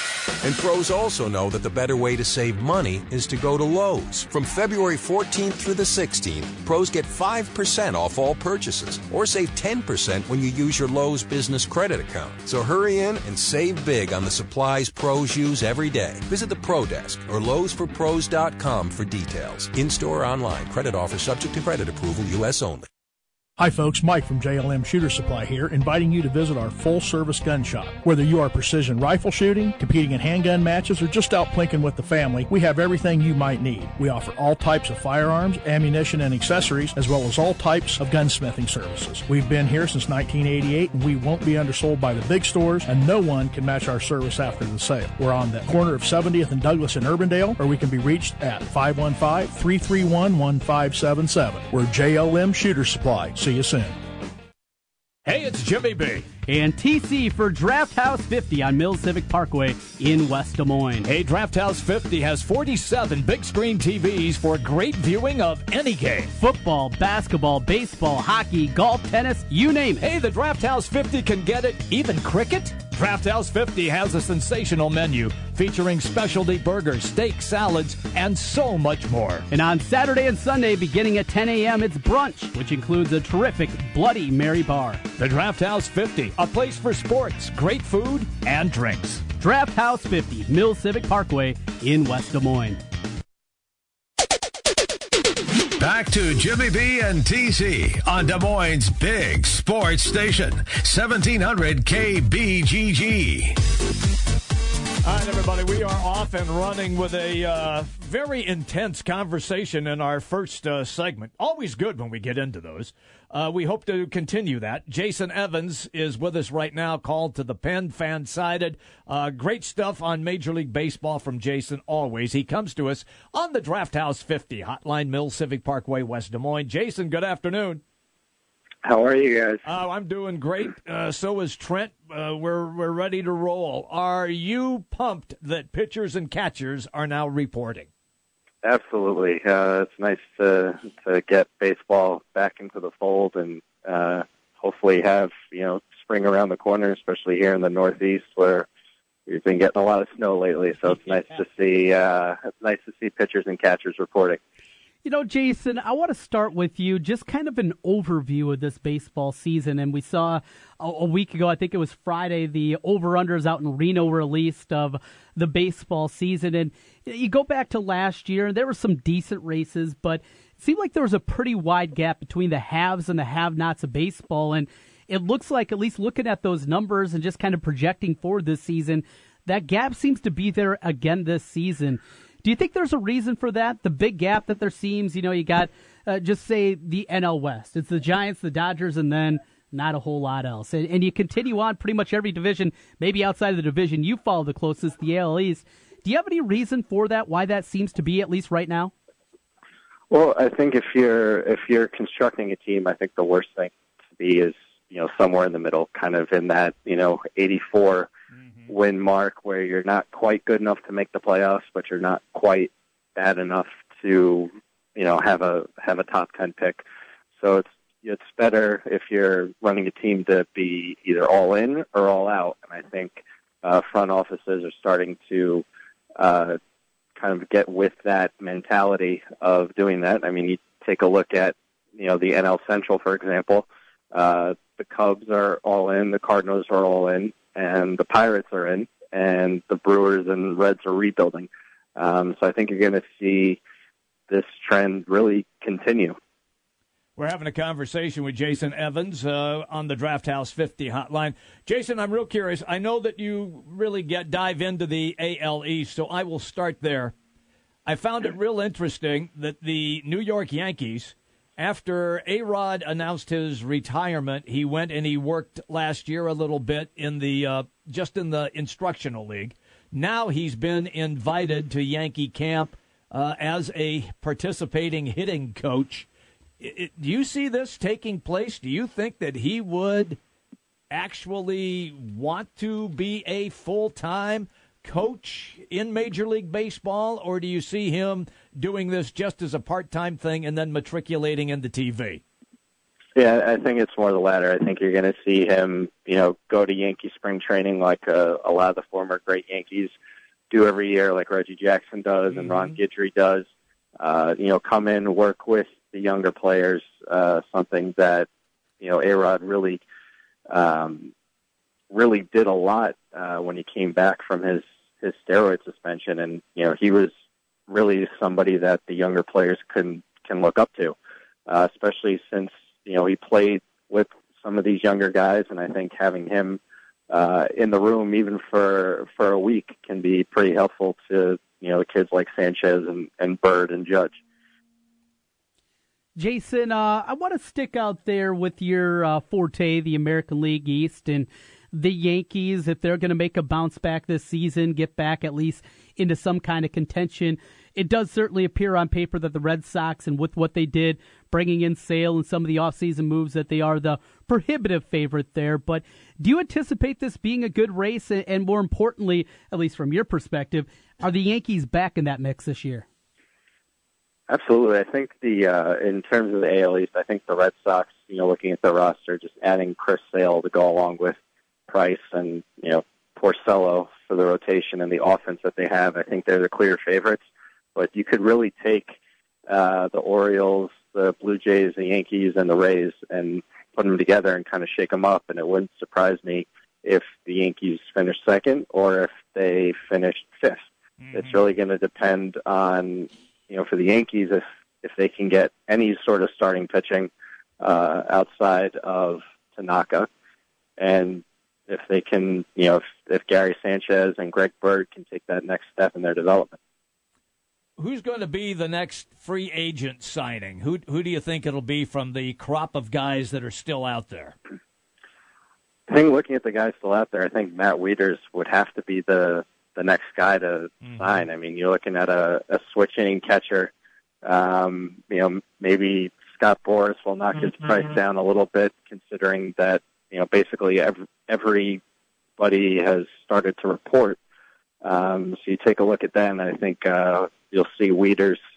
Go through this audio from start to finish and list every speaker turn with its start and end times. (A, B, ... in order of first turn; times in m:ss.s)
0:00.4-0:22.9 A
0:23.6-0:54.0 B
0:55.2-0:56.3 C
0:56.5-1:01.1 D
1:01.0-1:06.3 C
1:06.4-1:10.1 D
1:10.0-1:19.5 C
1:19.5-1:25.0 D
1:25.2-1:29.2 C
1:29.4-1:32.8 D
1:35.8-1:43.6 E
1:45.0-2:07.8 C
2:08.8-2:09.6 F
2:09.6-2:17.9 C
2:18.6-2:28.7 F
2:29.3-2:34.4 F
2:35.0-3:18.9 D
3:20.1-3:28.1 F
3:28.7-3:36.8 F
3:37.4-3:45.6 F
3:46.2-3:46.6 F
3:47.2-4:03.6 F
4:04.3-4:06.2 F
4:07.2-4:17.1 C
4:17.9-4:36.1 C
4:36.6-4:40.2 C
4:40.9-4:52.2 C
4:53.2-4:59.9 F
5:00.5-5:03.5 F
5:02.3-5:02.8 C
5:04.0-5:08.3 F
5:08.8-5:09.8 F
5:10.5-5:11.1 F
5:11.9-5:17.1 F
5:17.7-5:21.0 F
5:21.5-5:34.2 F
5:36.2-6:02.9 D
6:04.3-6:11.2 F
6:11.7-6:17.2 F
6:17.8-6:19.0 F
6:19.5-6:40.1 F
6:31.0-6:31.5 C
6:40.8-6:46.6 F
6:47.8-6:54.4 C
6:55.9-7:03.7 F
7:00.8-7:01.3 C
7:04.2-7:11.8 F
7:12.4-7:14.2 F
7:14.8-7:18.4 F